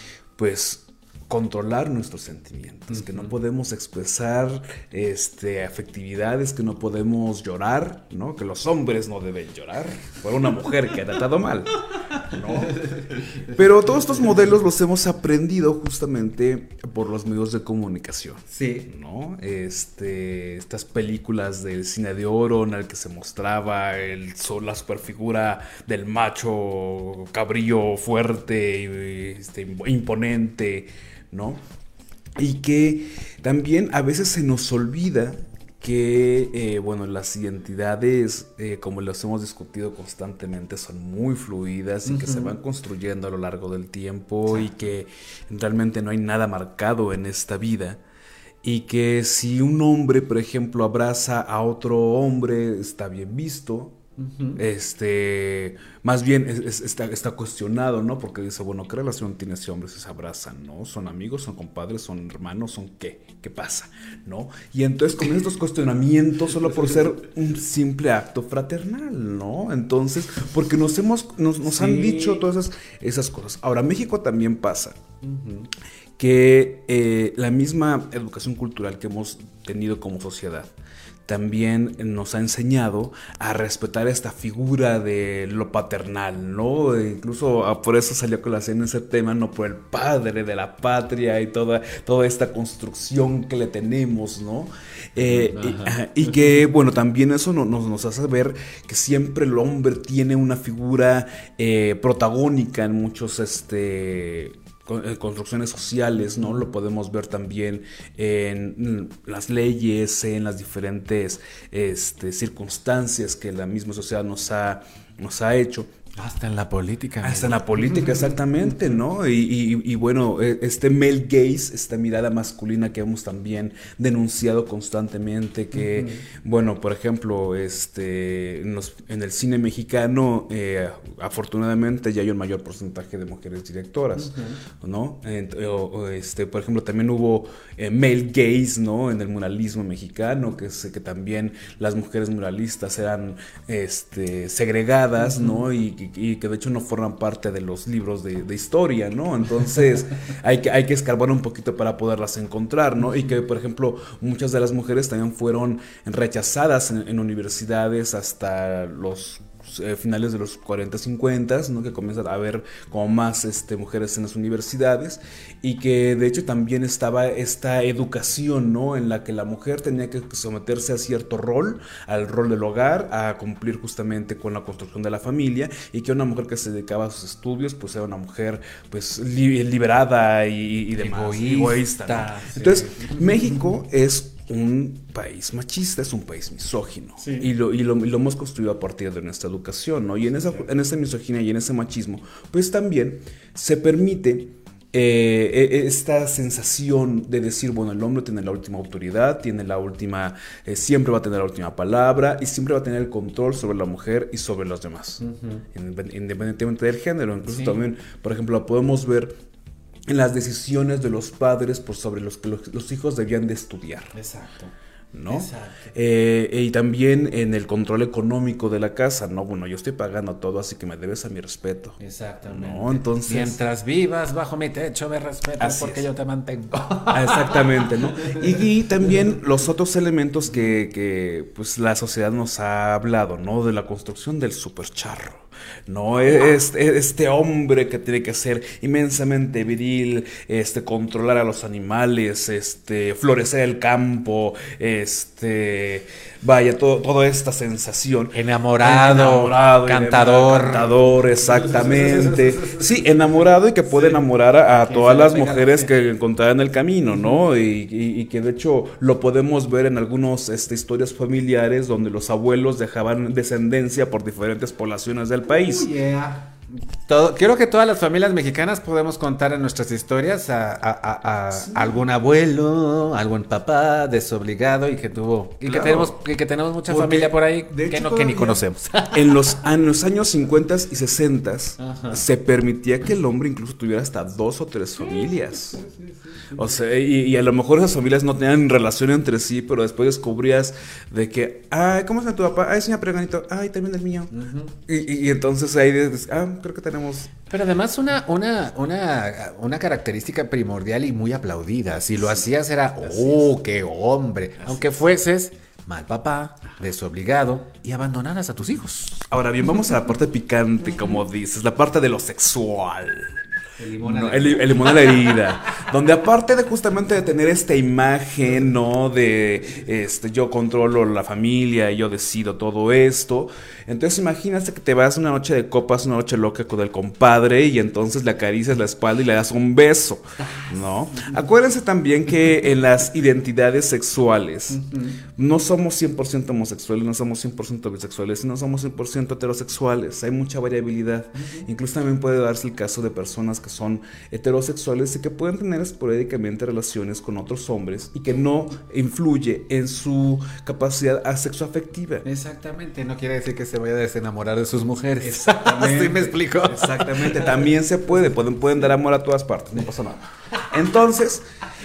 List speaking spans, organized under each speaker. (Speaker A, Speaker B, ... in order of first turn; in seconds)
Speaker A: 0.4-12.9, 13.5-31.6, 32.4-48.0, 48.6-54.0, 54.6-75.0, 76.2-80.7, 81.3-115.9, 117.2-205.2, 205.7-209.3, 210.1-214.1, 215.1-223.6, 225.6-226.1, 227.1-265.9, 271.5-272.1, 275.6-276.2, 276.9-285.8, 286.5-294.3, 294.9-297.3, 302.2-302.5, 303.0-303.5, 304.6-305.1, 309.2-313.4, 314.0-352.2, 355.2-361.4
Speaker B: 2.9-3.3, 12.7-13.1, 18.5-18.9, 42.0-42.5, 44.5-44.7, 54.2-54.6, 71.7-72.5, 75.2-75.7, 95.2-96.0, 116.2-118.2, 125.8-126.2, 134.2-134.6, 181.0-183.6, 187.2-187.5, 205.2-205.7, 207.5-207.8, 214.1-214.7, 215.3-215.8, 222.0-228.4, 248.3-251.0, 252.0-252.8, 254.7-255.9, 265.5-279.6, 281.8-282.2, 285.0-286.7, 294.3-294.8, 297.5-309.2, 313.8-315.5, 330.5-331.4, 334.7-335.2, 341.4-341.7, 352.2-357.7